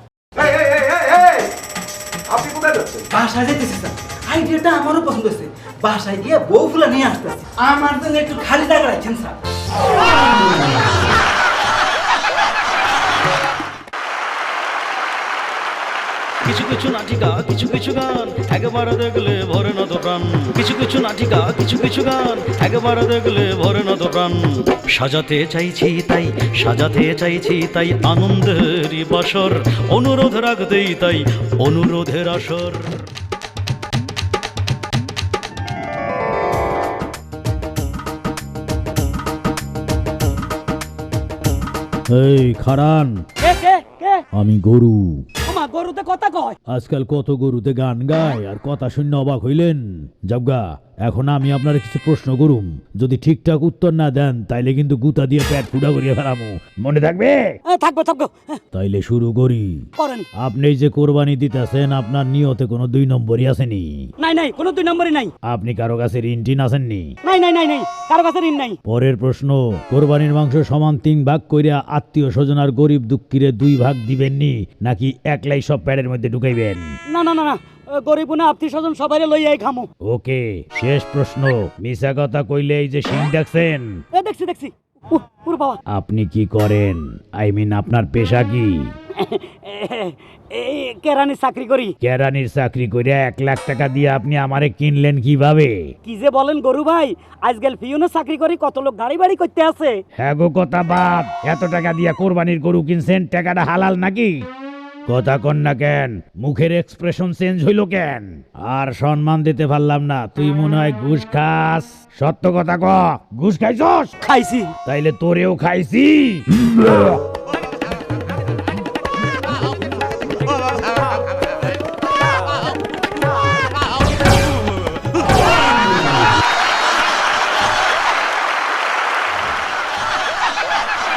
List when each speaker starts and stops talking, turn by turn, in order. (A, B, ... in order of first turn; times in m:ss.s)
0:00.4-0:01.5 A
0:02.3-0:03.1 A
0:03.2-0:09.3 B
0:16.4-0:33.0 C
0:42.1-0:43.1 D
0:43.4-0:44.2 B
0:44.3-0:45.2 D
0:45.4-0:46.6 B
0:46.7-0:57.4 D
0:57.7-0:58.6 B
0:58.7-0:59.8 D
1:00.0-1:00.2 B
1:00.4-1:03.9 D
1:04.2-1:05.3 B
1:05.5-1:07.1 D
1:07.2-1:08.8 B
1:08.9-1:16.8 D
1:17.1-1:19.9 B
1:20.1-1:23.8 D
1:24.1-1:25.8 B
1:25.9-1:28.7 D
1:29.2-1:31.9 B
1:32.0-1:35.7 D
1:36.0-1:39.9 B
1:40.2-1:44.3 D
1:45.1-1:54.1 D
1:54.2-1:54.7 B
1:54.8-1:56.4 D